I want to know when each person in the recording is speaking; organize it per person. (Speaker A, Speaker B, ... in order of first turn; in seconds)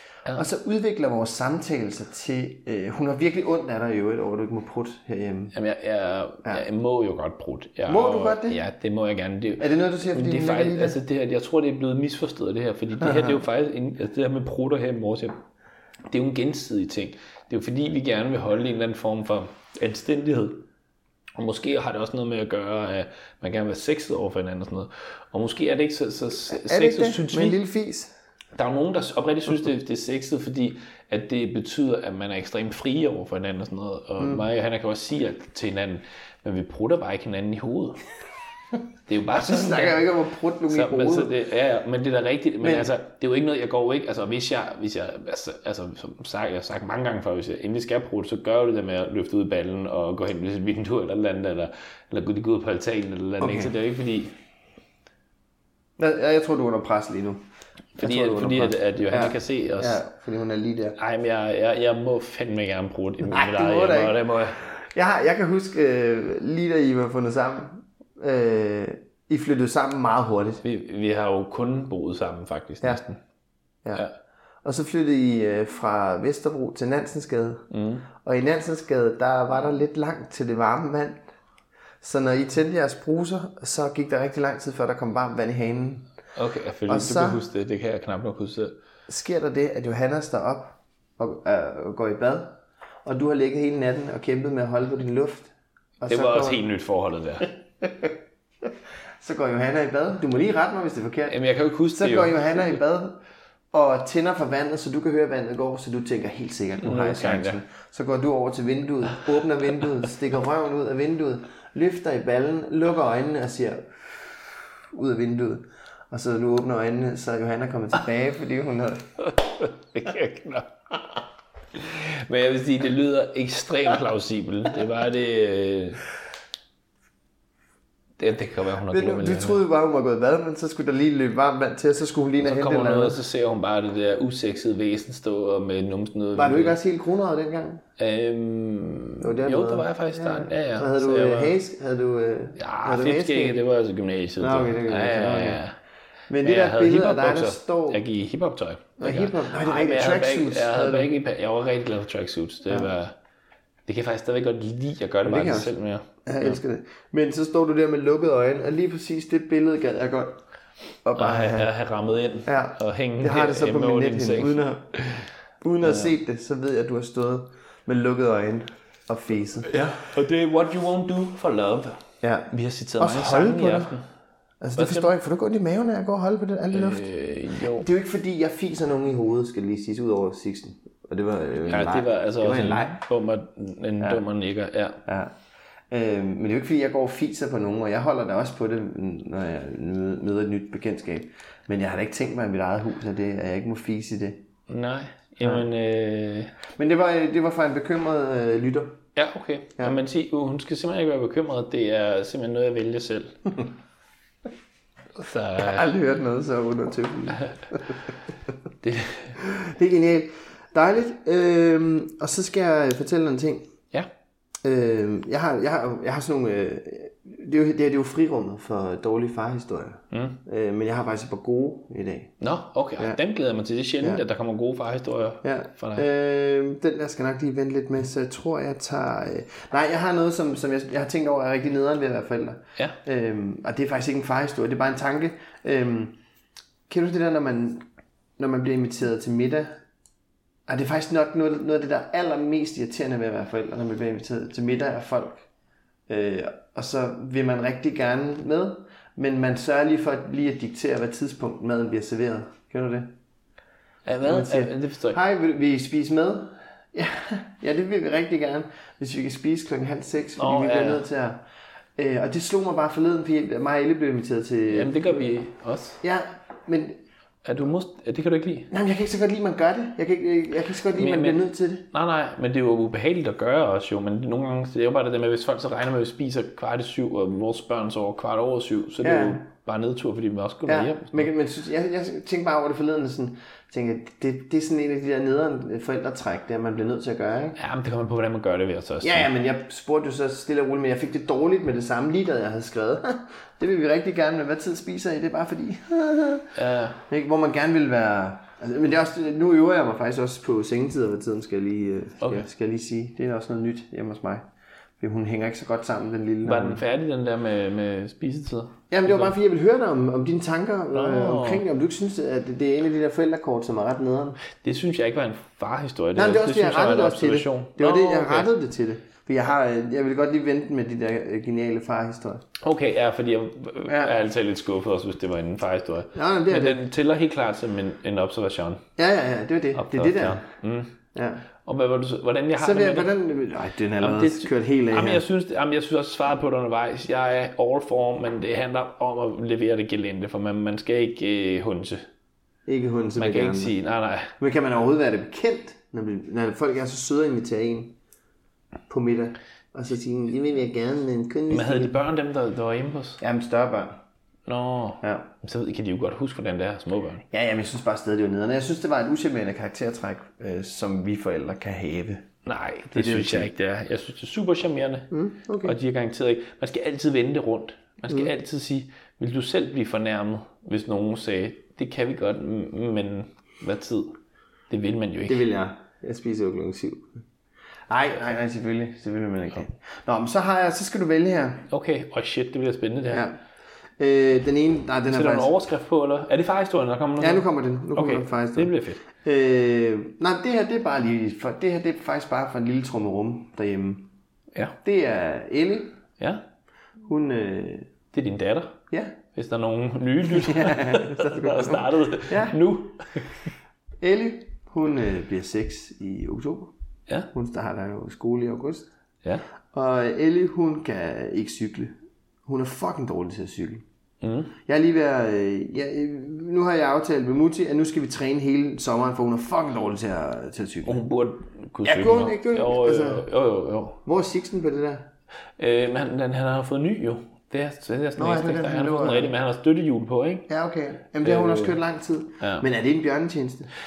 Speaker A: 0.3-5.5, 7.9-8.6, 9.6-11.0, 13.0-13.4, 26.5-28.1, 34.2-34.5, 39.4-41.3, 42.6-42.9, 53.4-53.7, 56.0-57.4, 58.0-61.0, 63.3-70.6, 74.6-77.7, 78.2-81.2, 82.0-86.1, 86.9-87.4, 89.1-96.6, 97.8-98.1, 99.2-101.4, 101.9-103.2, 103.7-114.4, 114.9-119.1, 128.9-133.2, 136.3-137.8, 139.2-143.6, 144.4-145.6, 146.3-148.0, 149.0-151.1, 155.2-160.4, 161.1-161.7, 162.4-164.9, 165.6-169.8, 172.2-174.0, 174.6-177.1, 177.8-183.0, 185.1-185.3, 185.9-194.4, 196.8-199.0, 205.6-208.0, 209.4-213.7, 214.6-222.3, 225.4-236.2, 236.9-237.8, 238.4-239.8, 240.7-245.4, 246.1-253.1, 254.2-261.4, 262.0-265.3, 266.0-267.0, 268.7-271.9, 279.0-279.4, 280.7-287.6, 289.0-296.5, 297.1-304.4, 305.0-306.8, 308.9-314.4, 316.2-322.4, 323.9-324.1, 326.1-326.8, 329.0-330.4, 331.1-331.4, 332.6-335.2, 342.7-343.7, 344.4-347.9, 348.9-351.9, 353.2-354.0, 355.0-355.3, 357.3-362.2, 362.9-363.5, 365.1-365.8, 375.3-377.2, 377.9-381.7, 383.1-383.4, 384.0-385.5, 387.2-394.1, 394.8-395.9, 397.1-397.9, 400.3-402.6, 404.0-406.7, 407.3-408.9, 409.7-411.9, 412.5-413.8, 414.7-421.0, 421.9-423.3, 424.1-425.1, 428.2-429.3, 430.5-433.7
Speaker B: 5.5-15.4, 16.1-20.6, 21.4-27.6, 28.6-38.0, 39.1-40.0, 40.7-54.4, 58.0-60.0, 61.0-64.6, 70.6-73.2, 77.7-78.1, 86.3-88.8, 96.1-97.5, 101.3-102.8, 106.8-107.6, 119.2-120.7, 121.8-126.0, 128.2-129.6, 132.4-136.8, 138.0-141.6, 142.6-145.8, 146.4-153.2, 153.9-156.6, 161.2-165.3, 165.8-166.1, 169.7-174.1, 174.8-175.1, 176.7-177.9, 181.7-185.0, 194.7-196.5, 199.2-203.4, 205.2-205.9, 208.8-209.4, 220.1-220.4, 222.4-226.1, 254.1-255.2, 260.4-261.1, 264.7-266.0, 267.4-268.7, 270.9-281.3, 287.6-289.3, 296.6-297.0, 302.2-302.5, 306.4-309.4, 310.9-311.6, 314.5-318.5, 322.6-328.8, 329.8-330.9, 331.6-333.1, 334.0-342.1, 343.2-344.3, 351.5-353.2, 354.5-357.2, 362.4-365.1, 365.6-374.2, 374.7-375.4, 381.7-383.2, 385.1-389.0, 398.1-398.8, 399.3-403.4, 414.2-414.5, 420.9-424.0, 425.6-430.5, 431.2-431.8, 432.4-432.7